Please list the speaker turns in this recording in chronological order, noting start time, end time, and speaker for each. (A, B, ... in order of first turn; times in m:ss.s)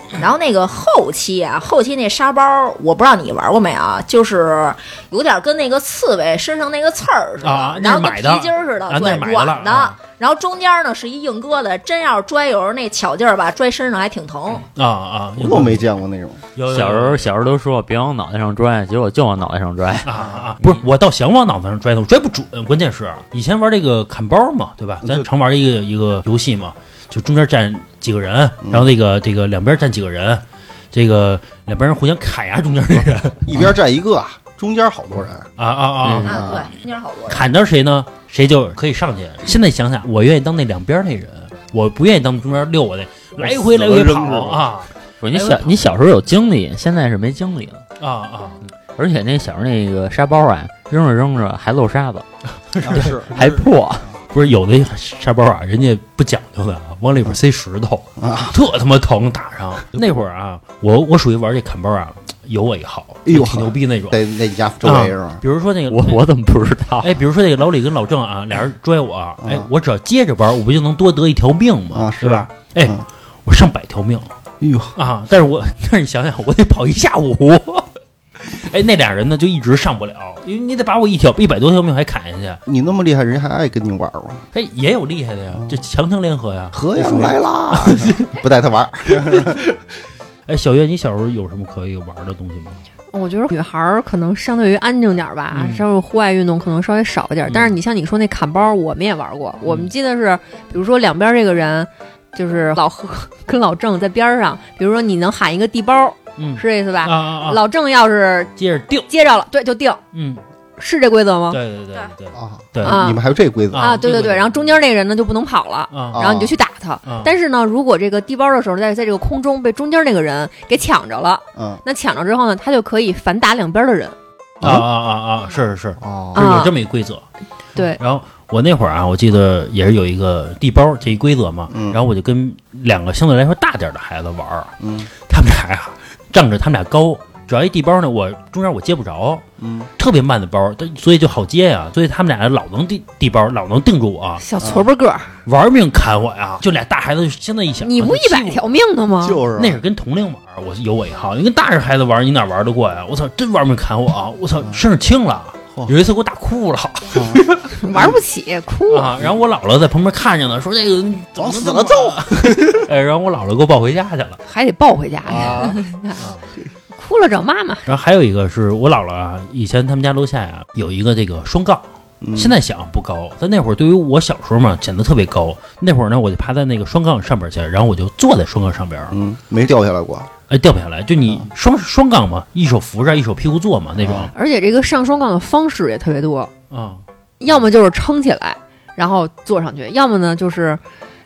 0:00.2-0:14.7 A
0:07.4-0:10.0 B
0:14.6-0:15.9 B
0:15.4-0:16.4 C
0:16.6-0:17.3 B
0:16.7-0:20.8 D
0:20.0-0:33.6 B
0:20.2-0:20.5 C
0:33.4-0:35.5 C
0:35.6-0:36.7 B
0:36.0-0:36.4 D
0:36.3-0:37.5 A
0:36.3-0:36.7 C
0:37.3-0:45.8 B
0:43.4-0:44.7 C
0:45.2-0:47.8 D
0:48.0-0:48.6 B
0:48.9-0:52.3 D
0:52.7-0:53.2 B
0:52.8-0:54.1 C
0:53.3-0:54.1 D
0:54.3-1:04.2 B
0:58.2-0:58.6 C
1:03.3-1:05.4 C
1:04.8-1:06.2 B
1:05.9-1:07.1 D
1:07.0-1:14.3 B
1:09.4-1:09.7 C
1:11.9-1:13.0 C
1:14.6-1:14.9 C
1:15.0-1:22.6 B
1:22.7-1:24.4 C
1:24.5-1:28.4 B
1:26.7-1:29.6 C
1:29.1-1:29.8 B
1:30.5-1:32.8 B
1:33.1-1:48.5 E
1:35.5-1:35.8 B
1:37.5-1:37.8 B
1:39.6-1:39.9 B
1:46.4-1:47.6 B
1:48.6-1:49.1 B
1:49.1-1:50.0 E
1:50.1-1:50.4 B
1:50.8-1:51.6 E
1:51.5-1:53.0 B
1:52.3-1:54.0 C
1:52.8-1:53.2 E
1:53.7-1:54.7 B
1:53.7-2:04.2 E
1:55.9-1:56.3 B
1:56.1-1:56.6 C
1:57.0-1:57.3 B
2:01.6-2:01.8 C
2:04.6-2:07.2 B
2:06.0-2:06.6 C
2:06.4-2:06.8 E
2:08.0-2:19.4 B
2:11.7-2:12.0 C
2:14.8-2:15.1 C
2:19.6-2:19.9 C
2:20.0-2:24.4 B
2:24.4-2:25.3 E
2:24.6-2:24.9 C
2:25.5-2:28.6 B
2:27.8-2:29.4 E
2:29.2-2:29.8 C
2:29.6-2:37.7 B
2:37.1-2:37.4 C
2:37.8-2:39.2 E
2:38.9-2:44.4 B
2:41.4-2:42.8 C
2:44.5-2:46.3 E
2:45.2-2:45.8 C
2:46.2-2:46.4 B
2:47.0-2:47.9 E
2:47.9-2:59.2 B
2:52.2-2:52.6 C
2:59.1-3:00.3 C
3:00.5-3:04.3 B
3:04.0-3:04.3 C
3:04.3-3:06.5 E
3:06.7-3:07.0 B
3:07.4-3:10.8 E